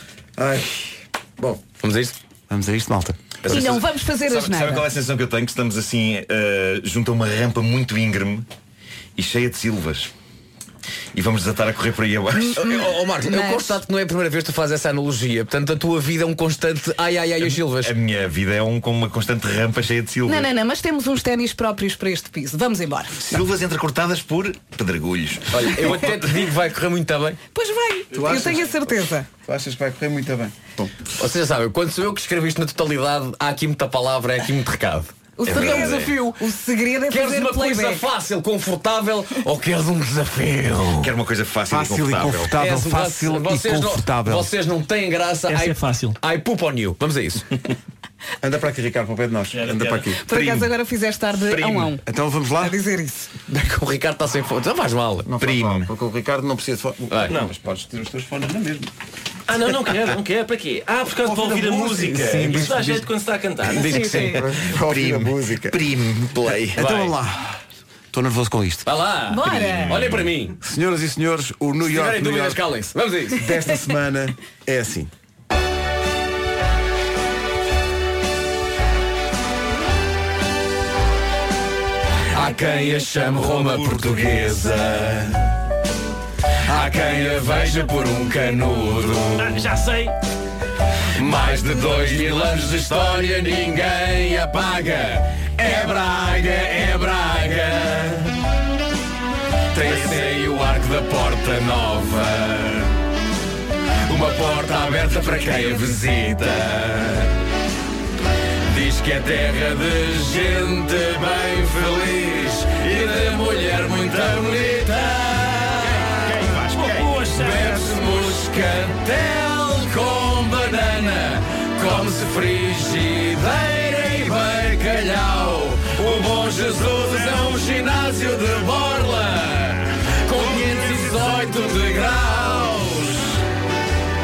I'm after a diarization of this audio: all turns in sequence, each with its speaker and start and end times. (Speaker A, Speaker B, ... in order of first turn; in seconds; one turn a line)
Speaker A: 0.4-0.8
Speaker B: 1.8-2.2
Speaker A: 2.5-3.5
Speaker C: 3.4-8.5
Speaker D: 3.5-4.9
Speaker C: 9.2-10.1
Speaker C: 11.1-12.9
Speaker D: 12.3-13.8
Speaker B: 12.6-17.9
Speaker C: 17.8-20.5
Speaker D: 20.2-23.2
Speaker C: 23.2-26.5
Speaker B: 25.5-27.4
Speaker D: 27.5-29.3
Speaker A: 28.1-30.9
Speaker B: 31.1-36.1
Speaker D: 35.4-38.0
Speaker C: 35.4-36.1
Speaker B: 37.1-41.1
Speaker C: 41.0-42.6
Speaker A: 41.7-44.5
Speaker B: 42.5-47.6
Speaker E: 45.5-46.2
Speaker A: 48.4-50.7
Speaker E: 49.5-50.1
Speaker D: 50.2-52.0
Speaker C: 51.3-51.9
Speaker A: 52.0-52.8
Speaker D: 52.6-53.3
Speaker B: 53.5-55.3
Speaker A: 55.2-58.9
Speaker C: 55.4-55.9
Speaker B: 57.1-57.4
Speaker E: 59.5-64.3
Speaker A: 61.2-62.7
Speaker B: 62.3-63.1
Speaker B: 63.6-64.4
Speaker D: 63.8-64.4
Speaker C: 63.9-66.8
Speaker A: 64.3-65.8
Speaker A: 66.6-67.6
Speaker B: 66.8-67.2
Speaker A: 68.1-68.9
Speaker B: 68.8-70.6
Speaker D: 69.3-70.0
Speaker C: 69.5-70.3
Speaker A: 70.6-72.6
Speaker B: 71.8-73.5
Speaker A: 73.3-75.1
Speaker B: 82.3-85.6
Speaker B: 86.7-89.6
Speaker E: 89.4-90.2
Speaker B: 91.1-98.4
Speaker B: 99.7-102.9
Speaker C: 99.8-100.3
Speaker B: 104.0-107.3
Speaker B: 108.7-116.3
Speaker C: 116.0-117.1
Speaker E: 116.6-118.4
Speaker B: 117.3-133.4